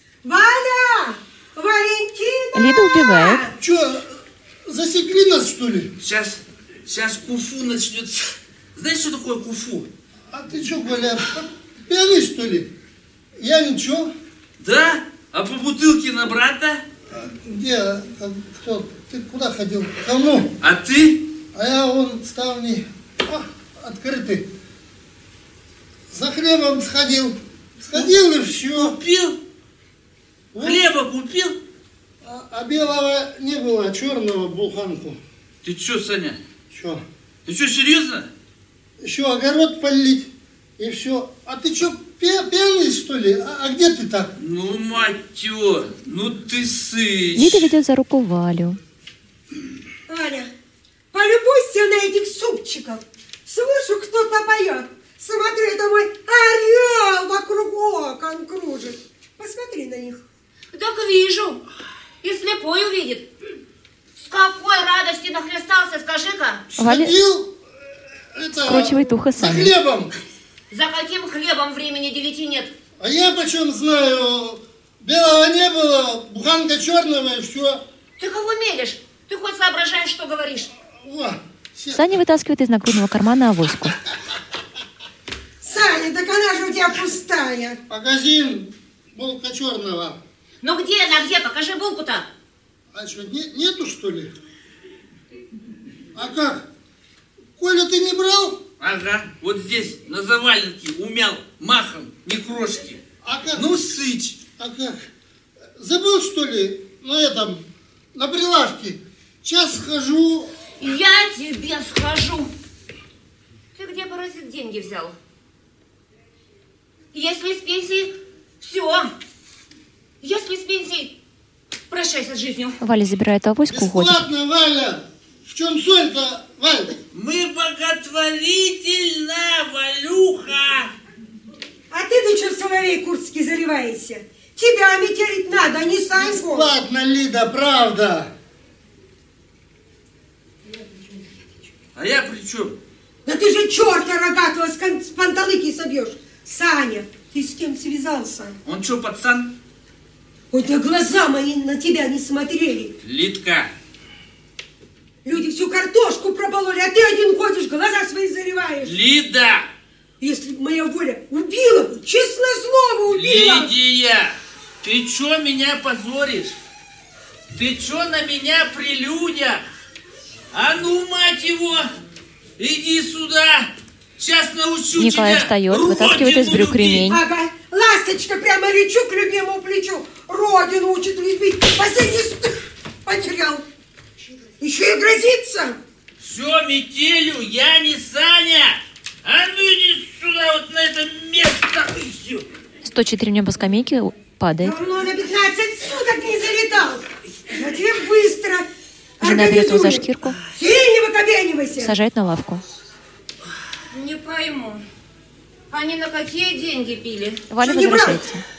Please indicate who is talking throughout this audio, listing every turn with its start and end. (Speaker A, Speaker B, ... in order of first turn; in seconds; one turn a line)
Speaker A: 0.2-3.5
Speaker B: 2.5-3.4
Speaker C: 3.6-4.2
Speaker C: 4.7-5.9
Speaker D: 6.0-9.9
Speaker C: 10.3-12.7
Speaker C: 13.4-14.1
Speaker D: 14.6-16.8
Speaker C: 17.1-20.5
Speaker D: 20.6-21.3
Speaker C: 21.5-24.5
Speaker C: 26.1-29.0
Speaker D: 28.8-29.4
Speaker C: 30.5-30.8
Speaker D: 30.6-31.6
Speaker C: 32.2-35.2
Speaker D: 35.6-36.4
Speaker C: 36.7-37.0
Speaker D: 37.5-38.3
Speaker C: 39.0-44.3
Speaker D: 44.4-47.7
Speaker B: 47.4-48.8
Speaker A: 50.1-50.5
Speaker A: 51.1-60.2
Speaker E: 60.7-61.6
Speaker E: 62.2-63.3
Speaker E: 64.2-66.7
Speaker C: 66.7-67.6
Speaker B: 66.8-67.2
Speaker C: 68.3-70.1
Speaker B: 68.6-69.7
Speaker E: 70.7-72.7
Speaker C: 73.0-77.8
Speaker E: 78.2-80.7
Speaker C: 80.8-82.2
Speaker B: 81.9-84.0
Speaker A: 85.6-87.8
Speaker C: 87.9-90.2
Speaker E: 90.6-92.3
Speaker C: 92.9-94.3
Speaker C: 96.2-96.7
Speaker C: 97.6-98.6
Speaker D: 98.8-103.0
Speaker C: 103.2-103.7
Speaker D: 103.5-104.4
Speaker C: 104.6-105.0
Speaker C: 105.8-110.6
Speaker E: 110.8-112.5
Speaker E: 113.8-115.2
Speaker E: 117.1-119.1
Speaker E: 120.2-121.1
Speaker E: 121.9-122.8
Speaker B: 122.8-124.2
Speaker C: 123.7-127.0
Speaker D: 127.1-130.9
Speaker A: 131.9-136.7
Speaker C: 136.1-138.3
Speaker D: 142.0-142.8
Speaker A: 143.3-148.6
Speaker D: 148.7-149.5
Speaker A: 150.5-152.9
Speaker D: 153.0-153.7
Speaker A: 155.2-158.9
Speaker D: 158.8-159.7
Speaker A: 160.2-163.7
Speaker D: 163.1-166.6
Speaker D: 167.5-169.6
Speaker D: 170.5-171.9
Speaker D: 172.6-177.1
Speaker B: 175.0-177.2
Speaker A: 177.1-183.7
Speaker A: 184.6-185.8
Speaker D: 186.2-192.5
Speaker B: 192.8-194.8
Speaker A: 194.6-198.7
Speaker A: 199.2-201.9
Speaker B: 199.2-200.4
Speaker B: 201.8-202.6
Speaker E: 203.9-204.8
Speaker E: 205.7-207.5
Speaker B: 207.5-208.4
Speaker A: 207.6-208.2